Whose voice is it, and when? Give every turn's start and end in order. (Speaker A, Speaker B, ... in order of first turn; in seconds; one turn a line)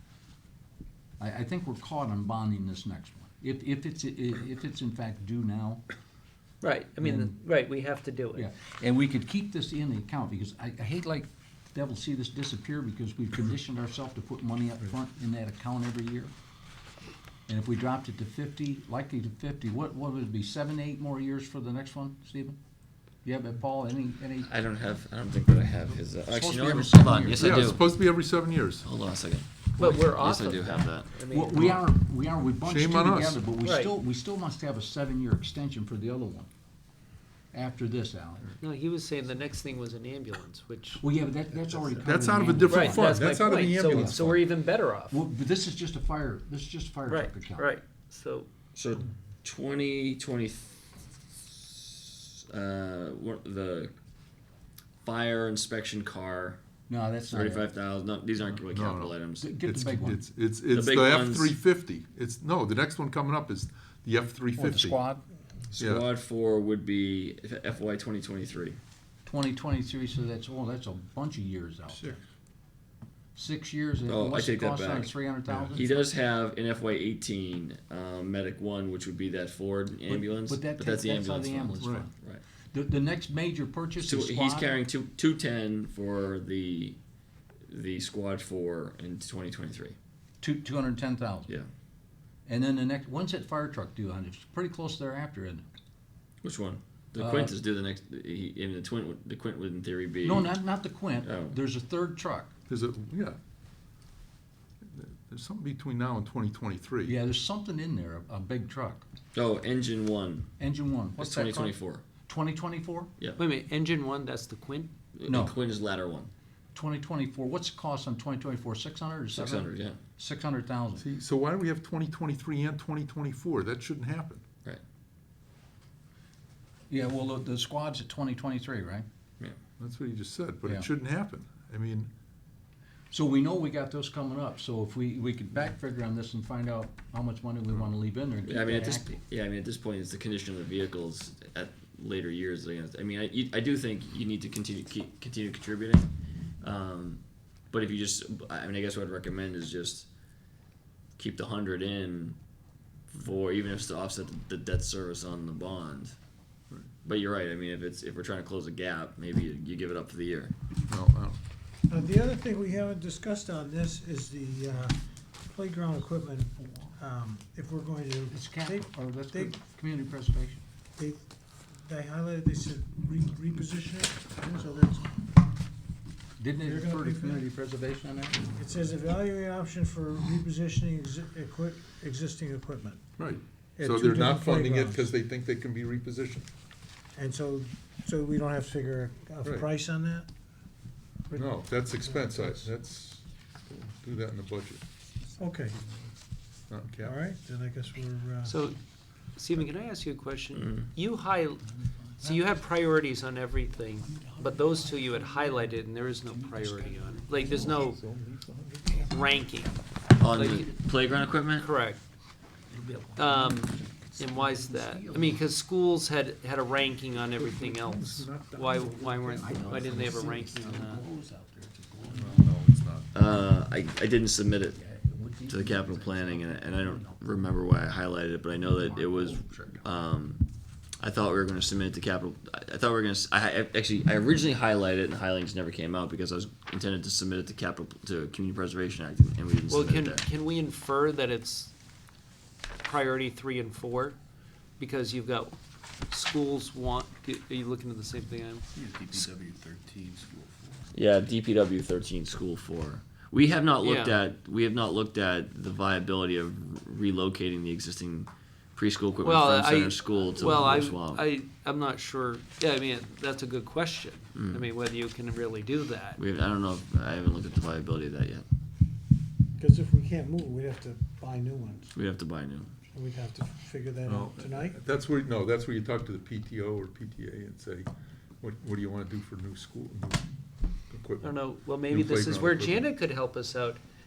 Speaker A: 1.2-5.8
Speaker B: 6.6-8.5
Speaker A: 7.0-7.3
Speaker A: 8.3-16.3
Speaker A: 17.5-22.6
Speaker A: 23.2-24.5
Speaker C: 24.4-27.8
Speaker A: 26.3-27.7
Speaker D: 27.4-28.9
Speaker C: 28.9-31.1
Speaker B: 29.8-31.8
Speaker A: 31.3-36.5
Speaker D: 32.6-33.4
Speaker B: 33.6-33.9
Speaker A: 37.5-38.5
Speaker B: 38.6-41.0
Speaker A: 41.0-43.2
Speaker D: 42.0-44.5
Speaker B: 42.7-45.2
Speaker A: 43.9-44.4
Speaker A: 45.1-47.7
Speaker B: 47.1-48.5
Speaker C: 48.8-53.9
Speaker C: 55.0-56.6
Speaker A: 56.9-57.6
Speaker C: 57.3-59.6
Speaker D: 58.6-65.0
Speaker A: 59.4-60.2
Speaker C: 60.7-61.6
Speaker A: 64.6-65.2
Speaker D: 65.8-66.1
Speaker C: 65.8-68.8
Speaker A: 69.3-72.2
Speaker A: 73.3-75.9
Speaker C: 74.1-75.1
Speaker D: 75.5-75.8
Speaker C: 75.7-82.4
Speaker A: 80.1-82.1
Speaker D: 81.8-82.1
Speaker A: 82.7-84.7
Speaker C: 84.0-87.0
Speaker C: 87.7-90.0
Speaker A: 90.4-91.5
Speaker A: 92.5-95.7
Speaker C: 96.4-100.6
Speaker A: 97.2-97.5
Speaker A: 100.2-102.5
Speaker C: 101.2-101.6
Speaker D: 102.7-103.4
Speaker D: 104.9-107.2
Speaker A: 107.0-109.0
Speaker C: 109.3-110.5
Speaker A: 110.6-113.1
Speaker C: 111.2-112.0
Speaker B: 113.4-114.9
Speaker C: 115.2-116.3
Speaker A: 115.3-115.6
Speaker A: 116.7-121.0
Speaker C: 119.3-120.0
Speaker D: 121.0-124.5
Speaker A: 126.9-129.1
Speaker D: 129.8-132.1
Speaker A: 133.1-139.1
Speaker C: 138.4-146.1
Speaker C: 146.6-150.1
Speaker C: 151.2-152.4
Speaker C: 153.1-156.1
Speaker C: 157.0-160.5
Speaker D: 160.9-161.4
Speaker E: 161.9-169.6
Speaker A: 166.6-166.9
Speaker A: 168.3-170.6
Speaker E: 171.8-175.2
Speaker A: 176.4-178.4
Speaker E: 176.6-177.4
Speaker E: 178.4-183.0
Speaker D: 183.2-186.5
Speaker E: 183.8-185.1
Speaker E: 187.1-190.3
Speaker D: 191.3-194.8
Speaker E: 195.4-195.8
Speaker D: 196.7-197.2
Speaker E: 197.0-198.5
Speaker B: 198.4-198.8
Speaker B: 199.3-201.6
Speaker C: 200.6-200.9
Speaker B: 202.2-208.0
Speaker A: 204.1-207.8
Speaker D: 207.3-209.3
Speaker B: 209.1-209.8
Speaker C: 210.2-211.7
Speaker B: 210.3-210.7
Speaker A: 210.4-210.8
Speaker B: 211.6-212.0
Speaker A: 212.7-215.4
Speaker B: 213.2-221.0
Speaker D: 217.2-220.1
Speaker A: 218.7-222.5
Speaker D: 222.1-223.2
Speaker C: 223.1-224.8
Speaker A: 224.8-227.3
Speaker C: 225.5-230.4
Speaker A: 228.5-229.9
Speaker C: 231.0-240.3
Speaker B: 239.7-241.7
Speaker B: 242.8-244.2
Speaker B: 244.8-245.6
Speaker B: 246.1-248.7
Speaker F: 248.8-250.8
Speaker C: 250.9-261.2
Speaker B: 253.8-254.2
Speaker B: 259.2-266.2
Speaker C: 264.4-264.7
Speaker C: 266.2-268.5
Speaker E: 269.6-272.0
Speaker C: 271.9-272.7
Speaker E: 272.9-274.8
Speaker D: 274.1-277.9
Speaker D: 278.4-280.2
Speaker D: 280.9-282.9
Speaker B: 281.2-283.8